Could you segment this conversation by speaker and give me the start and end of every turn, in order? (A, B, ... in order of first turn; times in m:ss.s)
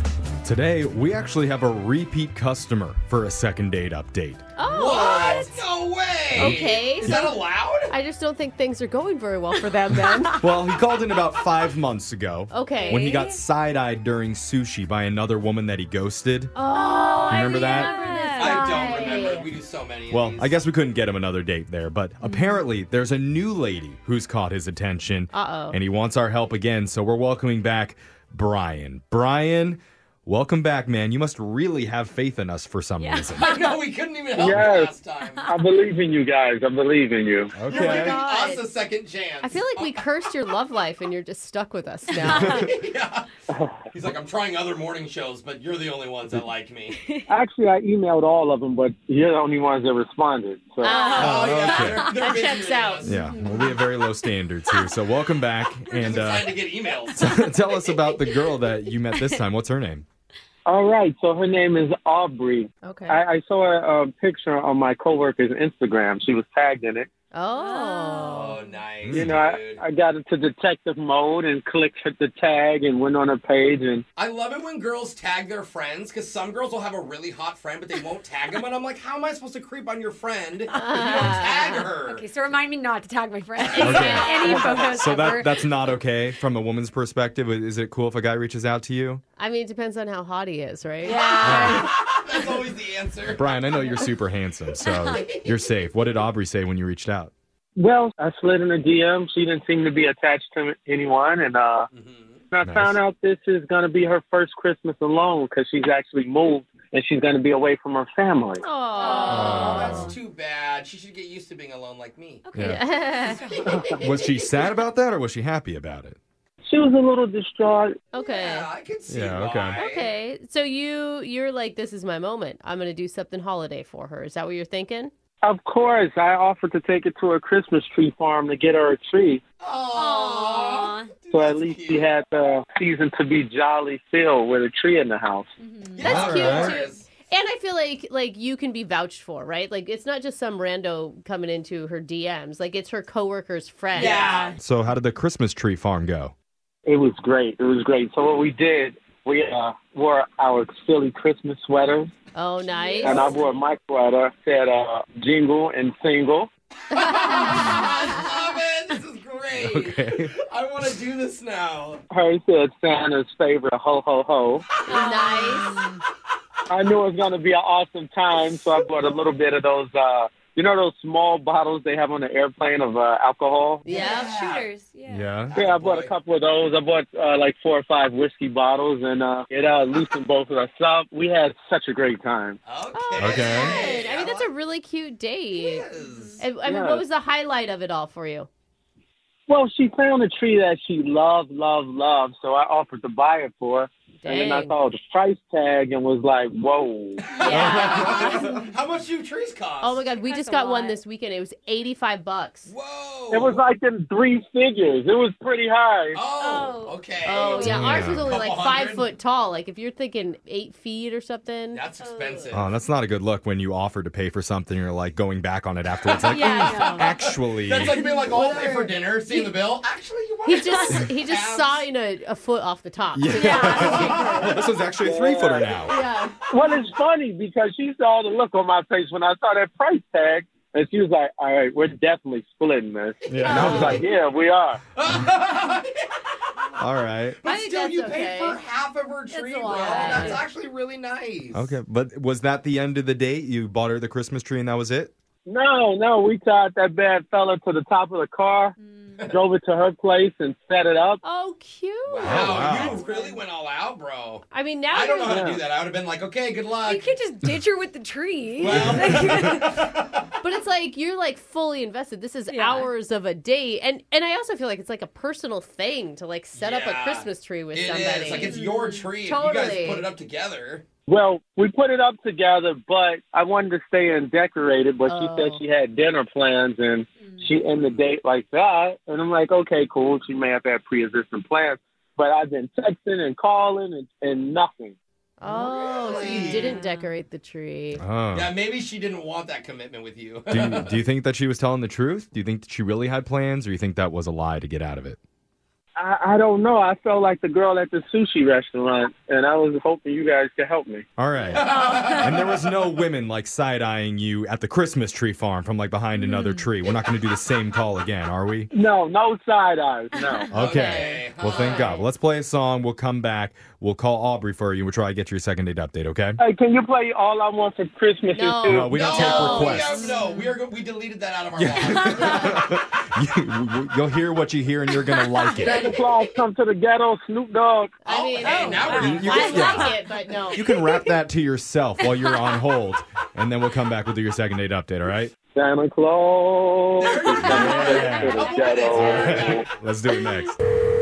0:00.4-0:04.4 A
0:04.6-0:05.6 B
0:04.7-0:07.9 C
0:06.3-0:07.3 A
0:06.4-0:10.4 B
0:10.1-0:10.4 D
0:10.4-0:16.5 A
0:12.5-0:13.2 B
0:12.7-0:13.4 D
0:16.6-0:19.5 B
0:17.3-0:17.9 A
0:17.6-0:19.0 D
0:18.4-0:20.6 C
0:20.1-0:33.5 A
0:25.3-0:25.8 B
0:33.0-0:33.8 D
0:33.4-0:35.5 C
0:34.4-0:34.9 E
0:35.5-0:37.6 E
0:37.6-0:38.2 A
0:37.7-0:40.0 C
0:37.7-0:38.6 B
0:37.8-0:38.6 D
0:39.4-0:42.7 B
0:42.2-0:42.6 D
0:42.3-0:42.7 A
0:42.3-0:43.3 C
0:43.5-0:43.8 E
0:43.9-0:47.0 C
0:47.3-0:51.0 E
0:50.8-0:53.2 B
0:50.8-0:52.2 D
0:51.0-0:53.2 C
0:51.2-0:52.1 A
0:53.0-0:56.6 A
0:53.3-0:53.8 D
0:55.9-0:57.3 C
0:57.2-1:00.1 A
1:00.7-1:07.1 E
1:02.8-1:03.2 B
1:07.3-1:08.6 B
1:07.5-1:08.8 D
1:08.3-1:09.8 C
1:09.0-1:09.4 A
1:09.1-1:14.0 E
1:14.2-1:22.2 C
1:20.7-1:21.5 D
1:20.7-1:21.9 B
1:22.1-1:25.6 D
1:23.6-1:24.7 C
1:23.8-1:24.9 B
1:23.8-1:29.2 A
1:29.4-1:31.8 B
1:31.0-1:31.9 D
1:31.2-1:33.6 C
1:31.4-1:31.9 A
1:33.3-1:37.3 A
1:34.8-1:35.3 D
1:37.8-1:41.9 E
1:41.9-1:42.4 C
1:42.5-1:48.6 E
1:42.6-1:43.0 A
1:48.6-1:50.1 B
1:49.0-1:50.0 D
1:49.0-1:52.4 C
1:49.3-1:50.2 A
1:52.5-1:53.6 D
1:52.5-1:52.8 A
1:52.6-1:53.4 B
1:53.4-1:54.3 C
1:54.0-1:56.2 A
1:56.7-1:58.0 E
1:58.1-1:58.7 B
1:58.2-2:00.1 C
1:59.1-1:59.8 A
1:59.8-2:05.1 B
2:05.4-2:09.4 E
2:09.6-2:12.1 C
2:09.9-2:11.1 D
2:11.3-2:15.5 E
2:15.6-2:16.0 D
2:15.9-2:17.1 C
2:16.0-2:24.4 B
2:16.0-2:16.8 A
2:23.9-2:24.6 C
2:24.0-2:24.5 D
2:24.6-2:26.3 A
2:26.9-2:32.1 E
2:32.3-2:33.4 B
2:32.8-2:33.2 D
2:33.0-2:36.5 E
2:33.1-2:33.4 C
2:36.9-2:42.0 C
2:36.9-2:38.2 B
2:39.6-2:40.4 A
2:42.1-2:44.7 E
2:44.9-2:45.8 B
2:44.9-2:46.0 D
2:46.7-2:53.8 E
2:53.8-2:54.4 B
2:53.9-2:54.7 C
2:53.9-2:55.3 D
2:55.1-2:55.6 A
2:55.6-2:56.1 C
2:55.6-3:02.6 E
3:02.7-3:04.5 C
3:02.9-3:05.9 B
3:03.2-3:03.8 A
3:05.6-3:06.4 C
3:06.0-3:06.3 D
3:06.4-3:08.5 B
3:06.6-3:07.0 E
3:09.5-3:17.3 E
3:14.2-3:14.7 B
3:17.3-3:20.0 C
3:17.4-3:18.6 D
3:17.4-3:18.6 B
3:17.5-3:18.5 A
3:19.8-3:22.7 B
3:20.2-3:21.0 D
3:22.7-3:23.6 C
3:23.3-3:26.2 E
3:26.1-3:29.1 C
3:26.4-3:27.5 D
3:27.2-3:31.8 B
3:27.6-3:28.4 A
3:31.7-3:32.7 C
3:32.0-3:32.5 D
3:32.5-3:38.0 A
3:36.1-3:41.9 C
3:36.2-3:37.1 D
3:38.0-3:38.2 D
3:38.1-3:39.5 B
3:40.4-3:44.6 B
3:43.1-3:45.9 A
3:43.3-3:44.5 D
3:45.0-3:45.7 E
3:45.9-3:46.4 B
3:46.5-3:54.8 E
3:53.3-3:54.0 A
3:53.4-3:53.8 D
3:53.5-3:54.0 B
3:55.0-3:55.9 C
3:56.8-3:57.4 A
3:57.4-4:01.8 C
3:57.4-3:58.6 B
3:59.3-4:00.4 B
3:59.5-4:00.4 D
4:01.5-4:05.1 A
4:05.5-4:08.8 E
4:08.8-4:09.2 D
4:09.3-4:11.2 E
4:11.2-4:12.9 B
4:12.1-4:17.1 C
4:12.2-4:13.0 A
4:13.0-4:13.4 D
4:14.5-4:15.5 B
4:15.3-4:15.6 E
4:16.8-4:19.8 D
4:18.6-4:20.2 C
4:18.7-4:19.6 A
4:20.4-4:28.6 B
4:22.5-4:22.9 D
4:26.5-4:30.8 C
4:28.3-4:29.1 D
4:29.2-4:30.1 B
4:31.1-4:45.0 E
4:35.1-4:35.6 B
4:45.4-4:48.0 B
4:45.5-4:46.8 C
4:46.1-4:47.1 D
4:48.0-4:48.5 A
4:48.3-4:50.9 C
4:50.5-4:55.2 A
4:56.0-5:01.1 E
5:01.2-5:08.7 A
5:01.5-5:02.4 C
5:01.7-5:02.3 D
5:06.2-5:06.7 D
5:08.7-5:10.5 E
5:10.2-5:10.4 D
5:10.5-5:16.4 A
5:10.5-5:12.0 C
5:10.6-5:12.1 B
5:16.4-5:19.0 E
5:18.3-5:20.2 B
5:18.6-5:20.0 A
5:18.9-5:22.5 C
5:19.8-5:20.6 D
5:21.6-5:25.9 A
5:21.8-5:22.3 D
5:22.1-5:22.6 B
5:25.1-5:25.8 D
5:25.6-5:28.0 E
5:28.0-5:30.6 B
5:28.1-5:29.8 C
5:28.4-5:30.9 D
5:28.9-5:29.9 A
5:30.5-5:35.3 A
5:32.1-5:32.6 D
5:35.6-5:39.7 E
5:37.0-5:39.7 C
5:37.4-5:40.6 A
5:37.7-5:38.8 D